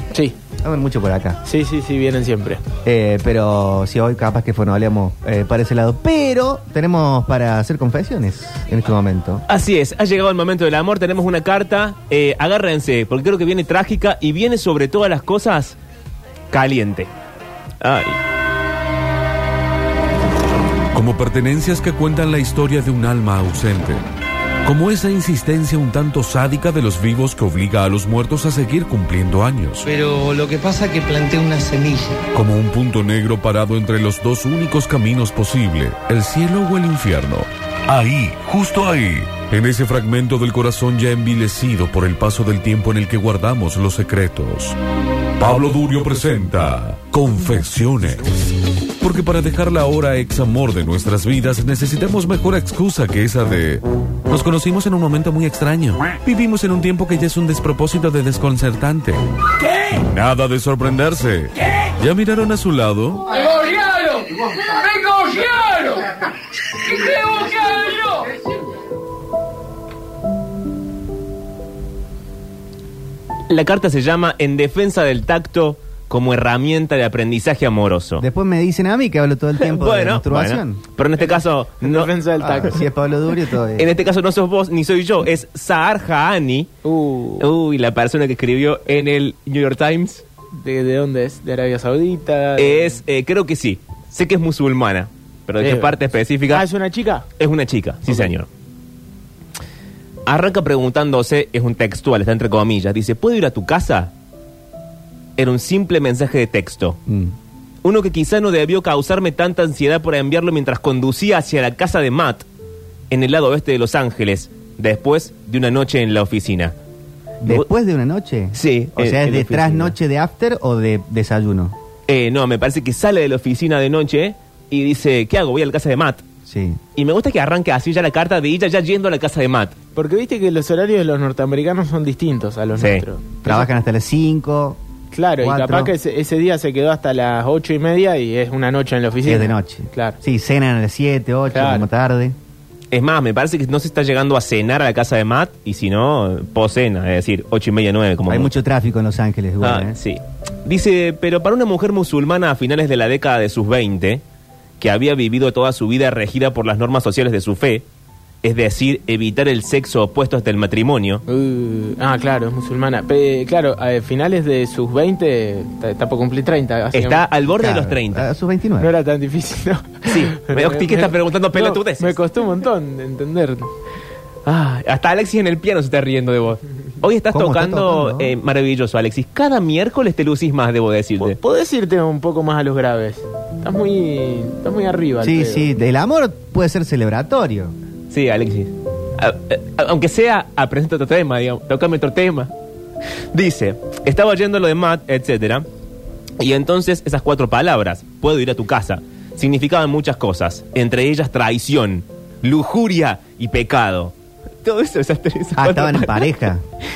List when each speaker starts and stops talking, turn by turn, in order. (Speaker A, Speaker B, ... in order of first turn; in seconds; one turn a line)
Speaker A: 0.6-1.4
Speaker B: 1.4-2.6
Speaker A: 2.8-9.4
Speaker C: 9.5-15.8
Speaker C: 16.5-17.1
Speaker C: 17.8-18.1
Speaker D: 20.9-24.0
Speaker D: 24.6-29.9
Speaker E: 29.9-32.1
Speaker D: 32.3-44.7
Speaker D: 45.4-48.3
Speaker D: 49.0-59.2
Speaker D: 59.9-63.4
Speaker C: 73.5-78.2
Speaker A: 78.2-80.8
Speaker C: 79.6-82.1
Speaker B: 81.2-82.8
Speaker A: 82.4-83.9
Speaker C: 83.8-86.7
Speaker B: 86.8-87.5
Speaker C: 87.4-90.2
Speaker B: 90.5-93.0
Speaker C: 92.6-96.7
Speaker B: 95.6-97.2
Speaker C: 97.3-98.5
Speaker C: 100.2-104.1
Speaker C: 105.4-107.0
Speaker A: 107.1-107.3
Speaker C: 107.8-112.4
Speaker C: 113.1-116.7
Speaker A: 117.4-121.7
Speaker C: 118.5-120.0
Speaker C: 122.1-126.2
Speaker A: 126.5-126.8
Speaker C: 126.9-129.8
Speaker B: 129.9-133.7
Speaker C: 132.8-133.0
Speaker A: 133.4-134.8
Speaker B: 135.1-140.2
Speaker A: 135.4-135.9
Speaker A: 139.2-142.3
Speaker B: 141.5-141.9
Speaker C: 142.9-148.5
Speaker A: 148.3-150.0
Speaker C: 149.6-154.2
Speaker C: 154.8-157.8
Speaker C: 158.4-161.2
Speaker B: 161.3-167.2
Speaker C: 166.9-168.3
Speaker A: 167.4-168.9
Speaker B: 168.8-173.7
Speaker C: 170.1-172.2
Speaker C: 174.4-181.4
Speaker A: 177.3-178.3
Speaker B: 181.2-185.7
Speaker A: 185.2-187.7
Speaker C: 188.1-192.5
Speaker C: 193.3-195.6
Speaker C: 196.4-206.3
Speaker A: 205.6-206.6